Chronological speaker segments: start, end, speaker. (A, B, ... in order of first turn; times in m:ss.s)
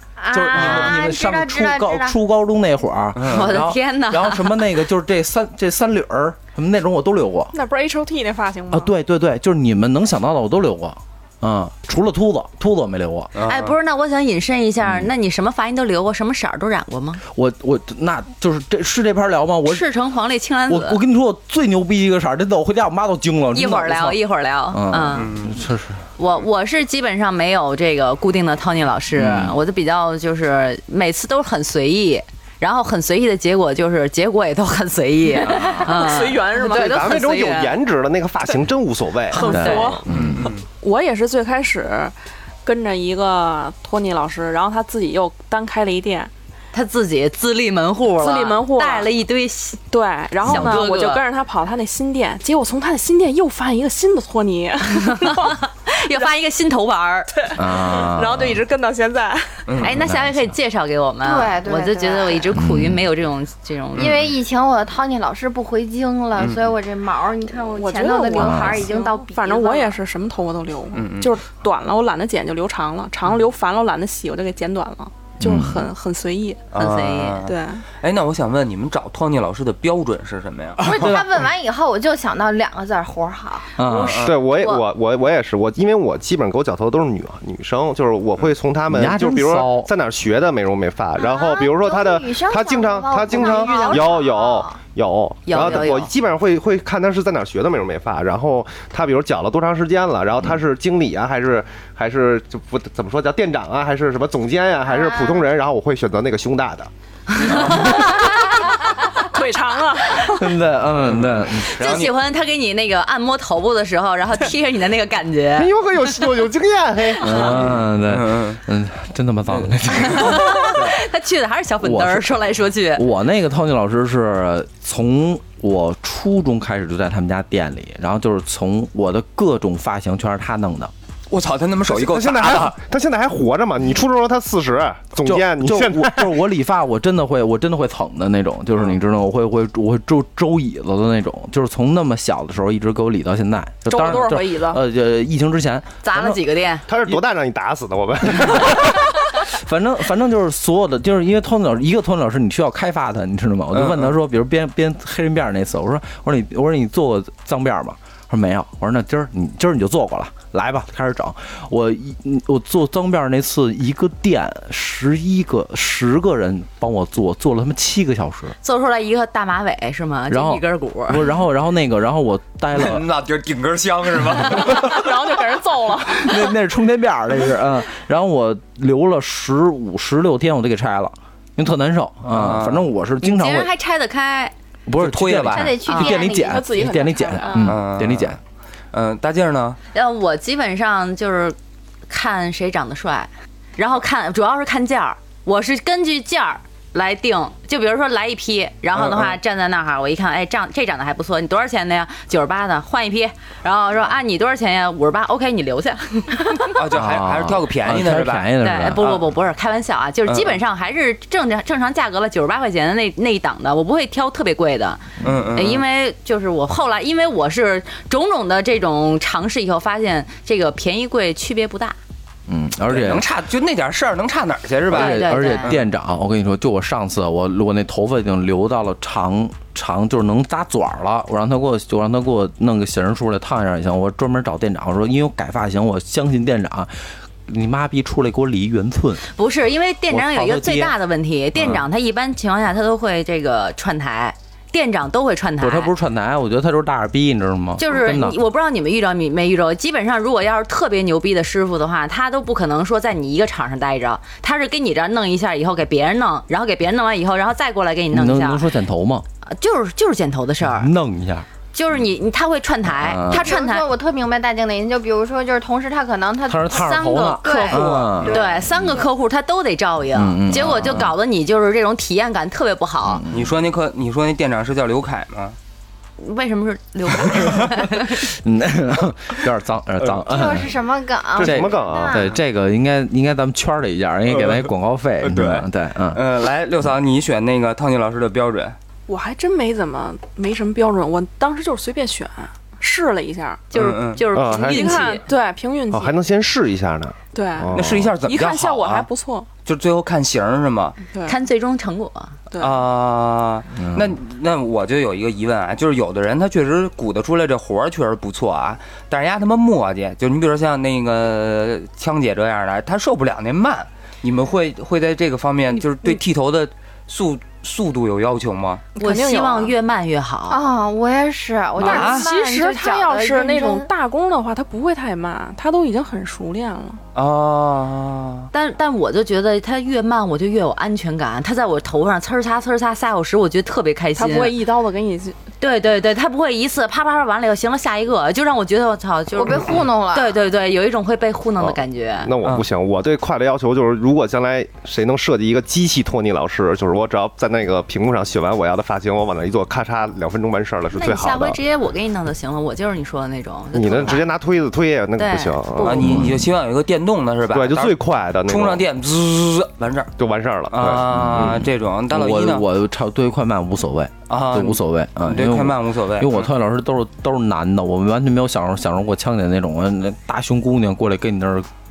0:00.2-0:02.2 A
0:00.3-0:07.5 B
0:00.5-0:00.9 C
0:03.2-0:03.6 C
0:03.2-0:04.6 D
0:07.5-0:08.9 E
0:08.7-0:13.3 B
0:13.3-0:13.8 C
0:13.4-0:17.2 D
0:14.8-0:15.1 B
0:17.2-0:19.8 B
0:19.6-0:21.0 D
0:20.7-0:24.2 B
0:23.5-0:25.3 D
0:24.7-0:26.0 B
0:25.1-0:25.6 C
0:26.2-0:37.8 D
0:29.1-0:29.6 B
0:35.4-0:36.0 B
0:35.4-0:37.2 E
0:36.6-0:39.6 F
0:39.3-0:46.3 E
0:39.3-0:40.0 D
0:39.5-0:40.5 B
0:40.1-0:40.6 C
0:46.7-0:49.8 D
0:48.2-0:49.1 E
0:49.9-0:55.6 E
0:50.4-0:51.2 D
0:50.4-0:50.8 B
0:55.0-0:57.4 D
0:57.4-0:59.7 E
0:57.6-0:58.6 B
0:59.7-0:59.9 C
0:59.8-1:04.1 D
0:59.8-1:00.5 B
1:01.2-1:02.5 A
1:02.5-1:03.0 B
1:03.9-1:10.0 A
1:04.0-1:04.3 C
1:06.4-1:06.7 C
1:07.8-1:16.6 E
1:08.4-1:08.9 B
1:10.9-1:11.3 C
1:15.4-1:15.9 B
1:16.7-1:21.1 C
1:16.7-1:17.4 D
1:17.4-1:17.8 E
1:20.8-1:21.4 B
1:20.8-1:23.7 A
1:23.8-1:24.3 B
1:23.8-1:24.4 C
1:24.2-1:46.9 F
1:24.5-1:24.8 D
1:28.9-1:29.9 B
1:31.2-1:34.8 A
1:33.4-1:34.1 D
1:35.4-1:36.1 D
1:44.9-1:45.4 A
1:47.4-1:48.5 D
1:47.6-1:48.1 B
1:48.7-1:50.5 E
1:50.2-1:51.7 B
1:51.1-1:52.1 C
1:51.8-1:55.7 D
1:55.5-1:57.6 F
1:57.2-2:01.0 B
1:57.5-1:58.6 C
1:59.5-1:59.8 C
2:00.0-2:03.0 D
2:01.8-2:10.9 B
2:11.3-2:12.7 C
2:11.9-2:16.3 F
2:15.2-2:26.4 B
2:23.8-2:24.8 E
2:26.0-2:26.8 D
2:26.9-2:29.0 F
2:28.4-2:48.5 B
2:33.7-2:34.1 C
2:48.6-2:51.2 D
2:50.3-2:53.0 B
2:52.7-2:55.0 C
2:54.7-2:56.5 E
2:56.2-3:03.7 B
3:02.3-3:02.9 C
3:03.2-3:04.5 D
3:04.9-3:08.4 B
3:05.0-3:05.7 C
3:05.5-3:06.7 A
3:05.8-3:06.1 D
3:06.0-3:07.6 E
3:07.6-3:08.4 C
3:08.9-3:09.8 C
3:09.9-3:11.6 D
3:12.1-3:26.8 D
3:18.9-3:19.4 C
3:26.7-3:29.2 C
3:26.9-3:29.0 B
3:28.6-3:42.0 D
3:30.3-3:30.6 C
3:35.2-3:35.8 C
3:42.5-3:43.2 B
3:42.9-3:45.9 C
3:44.9-3:59.2 B
3:44.9-3:45.7 D
3:59.3-4:05.9 D
4:00.1-4:00.9 B
4:01.6-4:01.8 B
4:05.6-4:08.4 B
4:07.8-4:18.6 D
4:18.1-4:19.2 B
4:19.4-4:20.9 D
4:20.6-4:21.5 B
4:21.7-4:23.8 D
4:22.9-4:23.5 B
4:23.3-4:26.9 A
4:26.5-4:29.0 B
4:26.7-4:33.2 D
4:27.4-4:28.5 A
4:30.1-4:31.1 B
4:30.5-4:31.1 C
4:33.0-4:33.6 B
4:33.3-4:35.6 C
4:36.2-4:38.3 D
4:37.4-4:40.7 B
4:40.2-4:42.3 A
4:41.4-4:42.2 F
4:41.4-4:46.2 B
4:44.3-4:44.6 C
4:45.2-4:48.8 C
4:49.1-4:53.6 E
4:53.7-4:55.2 D
4:53.7-4:54.2 C
4:54.3-4:55.1 F
4:54.6-4:56.2 E
4:55.9-4:58.1 F
4:57.3-4:59.5 E
4:57.7-4:59.1 C
4:59.6-5:01.0 C
5:01.2-5:02.4 D
5:02.6-5:18.8 C
5:03.8-5:04.1 B
5:18.9-5:19.8 E
5:19.0-5:20.6 D
5:20.5-5:23.9 A
5:21.8-5:27.0 E
5:21.8-5:22.3 C
5:27.1-5:28.5 C
5:28.5-5:34.5 D
5:34.2-5:35.4 E
5:35.6-5:42.3 D
5:39.3-5:40.3 A
5:41.6-5:51.6 F
5:50.9-5:54.3 D
5:53.7-5:56.2 F
5:55.2-5:56.0 D
5:55.8-6:00.1 C
5:56.0-5:56.4 B
5:57.5-5:58.8 F
6:00.2-6:01.5 F
6:00.7-6:02.6 C
6:01.1-6:11.7 B
6:04.3-6:06.5 C